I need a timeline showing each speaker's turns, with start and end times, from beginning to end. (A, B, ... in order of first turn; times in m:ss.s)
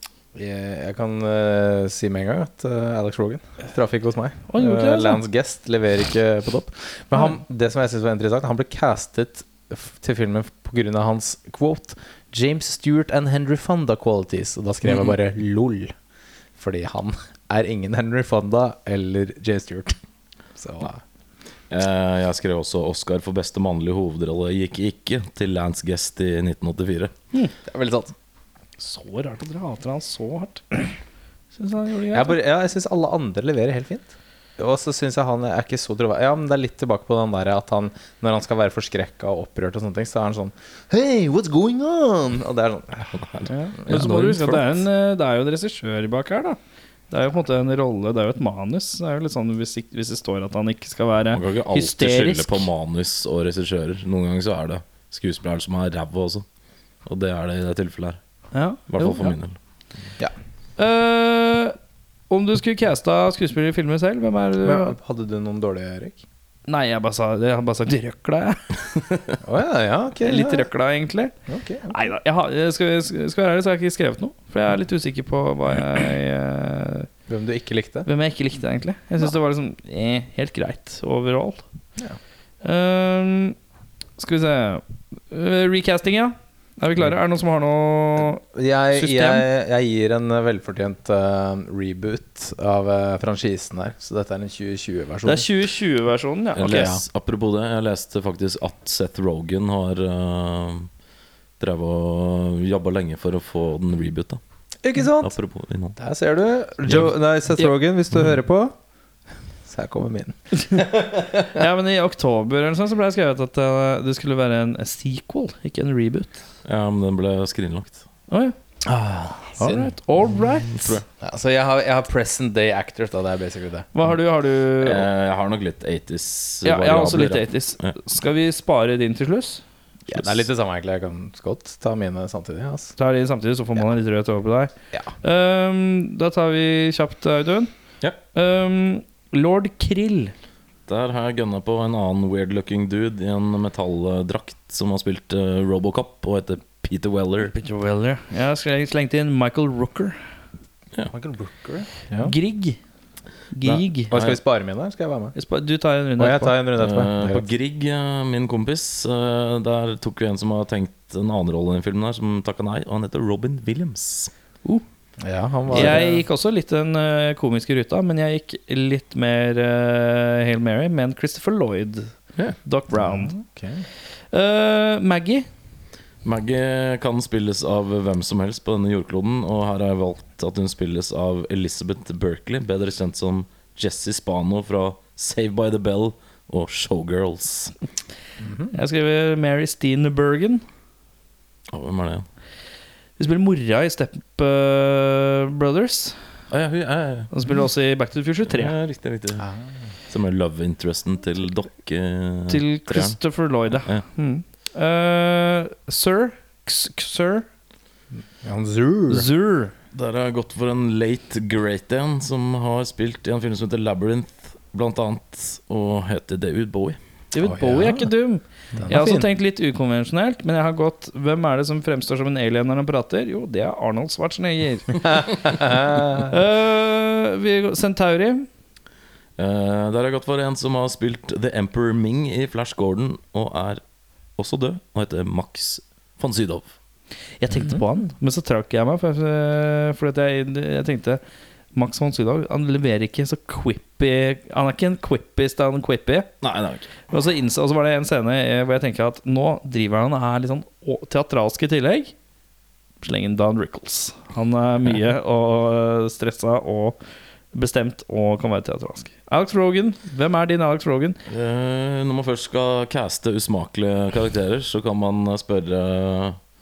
0:00.3-0:15.9 A
0:04.5-0:05.2 B
0:16.6-0:20.0 A
0:20.6-0:21.0 A
0:21.7-0:27.1 C
0:27.6-0:28.1 A
0:28.8-0:30.9 B
0:31.5-0:32.3 B
0:32.1-0:43.2 A
0:43.1-0:44.8 C
0:43.5-0:46.6 B
0:47.1-0:52.7 B
0:51.3-0:56.4 C
0:57.0-0:58.2 C
0:58.5-0:59.3 B
0:58.9-0:59.6 C
1:00.8-1:01.8 B
1:02.3-1:04.9 B
1:04.6-1:06.2 A
1:06.7-1:08.8 B
1:09.4-1:10.7 A
1:10.2-1:11.3 B
1:11.5-1:11.9 A
1:11.9-1:17.1 B
1:17.3-1:18.1 A
1:18.0-1:21.6 B
1:22.6-1:23.6 B
1:24.2-1:28.4 B
1:28.5-1:35.5 A
1:28.9-1:29.4 B
1:35.2-1:36.9 B
1:36.5-1:40.9 C
1:36.6-1:37.0 A
1:41.6-1:44.4 C
1:44.8-1:45.3 A
1:45.2-1:46.0 C
1:46.0-1:48.7 A
1:49.7-1:51.6 A
1:51.5-1:56.4 B
1:56.6-1:58.0 C
1:58.3-1:58.6 B
1:58.8-1:59.9 A
1:59.6-2:01.0 B
2:00.7-2:01.0 C
2:01.2-2:03.9 A
2:03.9-2:05.0 B
2:04.8-2:08.0 C
2:06.6-2:09.6 B
2:10.1-2:12.9 A
2:10.1-2:10.4 C
2:13.0-2:14.7 B
2:15.2-2:17.7 B
2:18.3-2:20.3 B
2:20.9-2:27.5 C
2:27.4-2:30.2 B
2:31.1-2:32.3 A
2:32.2-2:32.8 B
2:33.5-2:34.1 B
2:33.6-2:34.4 C
2:34.1-2:35.3 A
2:35.3-2:36.5 B
2:36.2-2:37.5 A
2:36.8-2:44.3 C
2:45.2-2:46.2 A
2:45.7-2:46.0 C
2:45.7-2:52.1 B
2:52.6-2:53.3 B
2:53.0-2:53.8 A
2:54.3-2:55.5 B
2:56.2-3:07.7 C
3:08.4-3:08.7 A
3:08.7-3:10.6 B
3:11.7-3:12.2 C
3:13.2-3:16.2 B
3:16.5-3:17.3 C
3:17.3-3:18.7 B
3:18.5-3:19.4 C
3:19.4-3:19.6 A
3:20.1-3:23.2 C
3:22.5-3:27.5 B
3:23.7-3:24.0 C
3:28.4-3:29.3 A
3:29.1-3:29.7 B
3:29.9-3:37.0 C
3:37.3-3:45.3 B
3:37.4-3:38.1 A
3:38.8-3:39.3 A
3:45.5-3:46.3 A
3:46.2-3:48.5 B
3:49.4-3:53.8 C
3:54.4-3:56.7 C
3:57.4-4:01.2 B
4:01.7-4:06.3 B
4:06.4-4:06.9 C
4:07.1-4:12.1 B
4:13.0-4:17.0 B
4:17.5-4:21.2 B
4:21.3-4:26.4 C